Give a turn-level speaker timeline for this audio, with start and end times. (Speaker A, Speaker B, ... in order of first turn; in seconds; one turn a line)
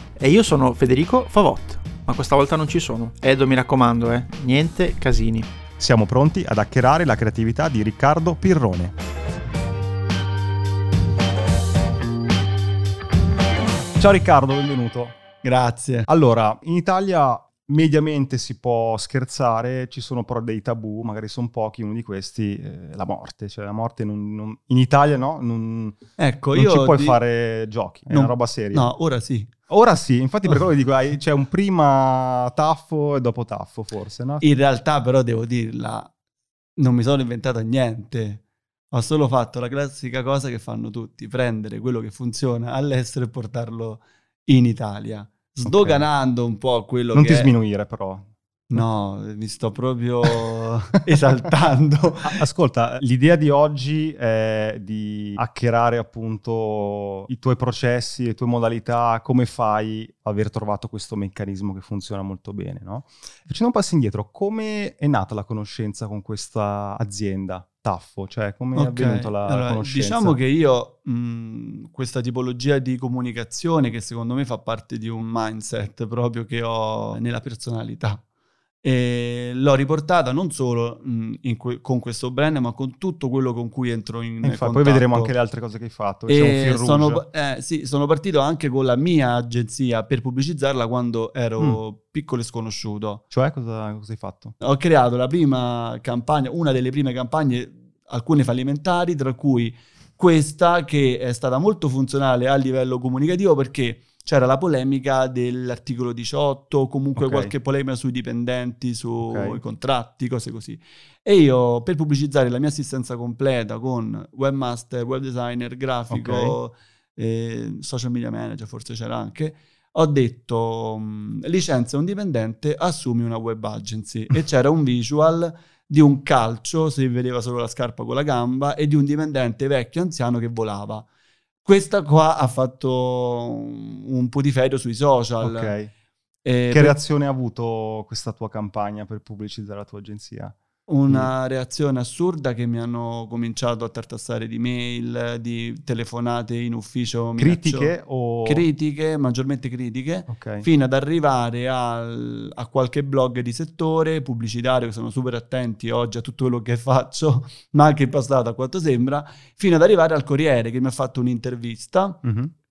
Speaker A: 0.2-5.5
Speaker B: 5.8-8.9
Speaker B: 14.0-15.2
Speaker C: 15.4-16.1
Speaker B: 16.1-26.0
Speaker C: 26.2-27.2
Speaker B: 26.6-28.9
Speaker C: 28.1-29.5
Speaker B: 29.7-34.5
Speaker C: 34.4-36.1
Speaker C: 36.8-47.5
Speaker B: 45.6-46.1
Speaker B: 47.1-48.8
Speaker C: 48.7-52.4
Speaker B: 52.2-70.4
Speaker C: 68.8-78.2
Speaker C: 78.8-85.3
Speaker B: 84.4-87.2
Speaker C: 86.3-93.2
Speaker B: 93.3-94.5
Speaker C: 94.6-131.1
Speaker B: 107.2-107.5
Speaker B: 109.2-109.6
Speaker B: 116.1-116.6
Speaker C: 131.7-135.7
Speaker B: 135.4-135.9
Speaker C: 136.4-137.0
Speaker B: 136.7-140.6
Speaker C: 140.9-147.9
Speaker B: 147.4-148.7
Speaker C: 148.4-162.2
Speaker B: 150.3-150.7
Speaker B: 162.2-162.5